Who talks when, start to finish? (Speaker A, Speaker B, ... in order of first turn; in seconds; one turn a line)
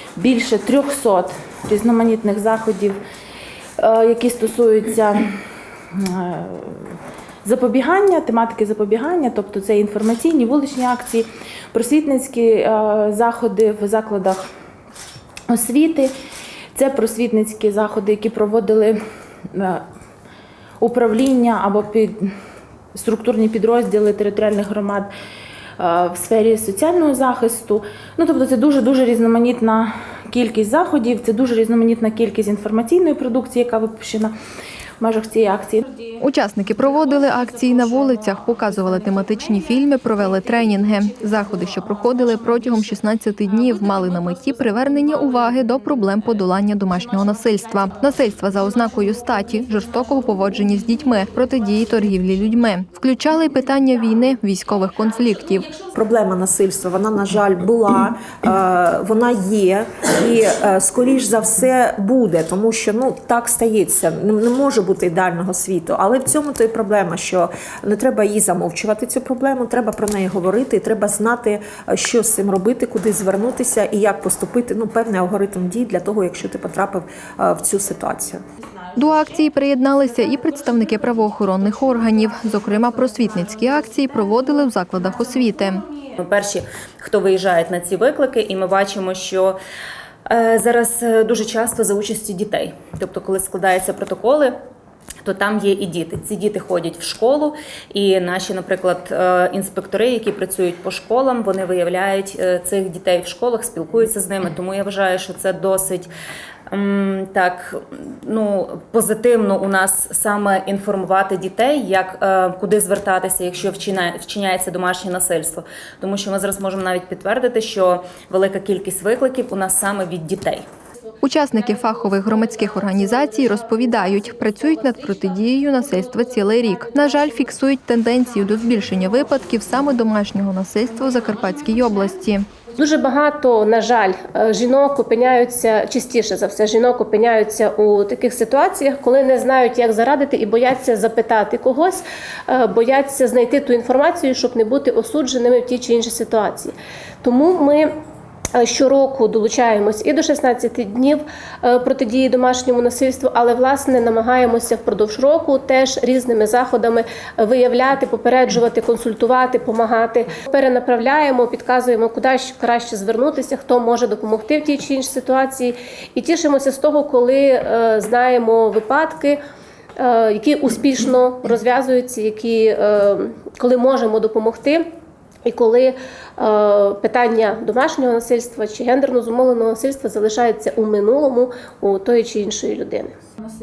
Speaker A: 0.2-3.0
Speaker A: 3.8-5.3
Speaker A: 5.9-14.4
Speaker A: 15.5-16.1
Speaker A: 16.7-19.0
Speaker A: 19.5-19.8
Speaker A: 20.8-22.3
Speaker A: 22.9-25.1
Speaker A: 25.8-34.3
Speaker A: 35.0-35.9
Speaker B: 36.2-55.7
Speaker C: 55.9-78.4
Speaker A: 78.8-79.1
Speaker B: 79.0-85.8
Speaker D: 86.2-89.6
Speaker D: 90.3-94.6
Speaker D: 95.2-106.1
Speaker D: 106.7-120.7
Speaker B: 121.2-132.5
Speaker E: 132.7-147.9
Speaker E: 148.5-169.4
Speaker E: 170.0-174.8
Speaker E: 175.4-183.1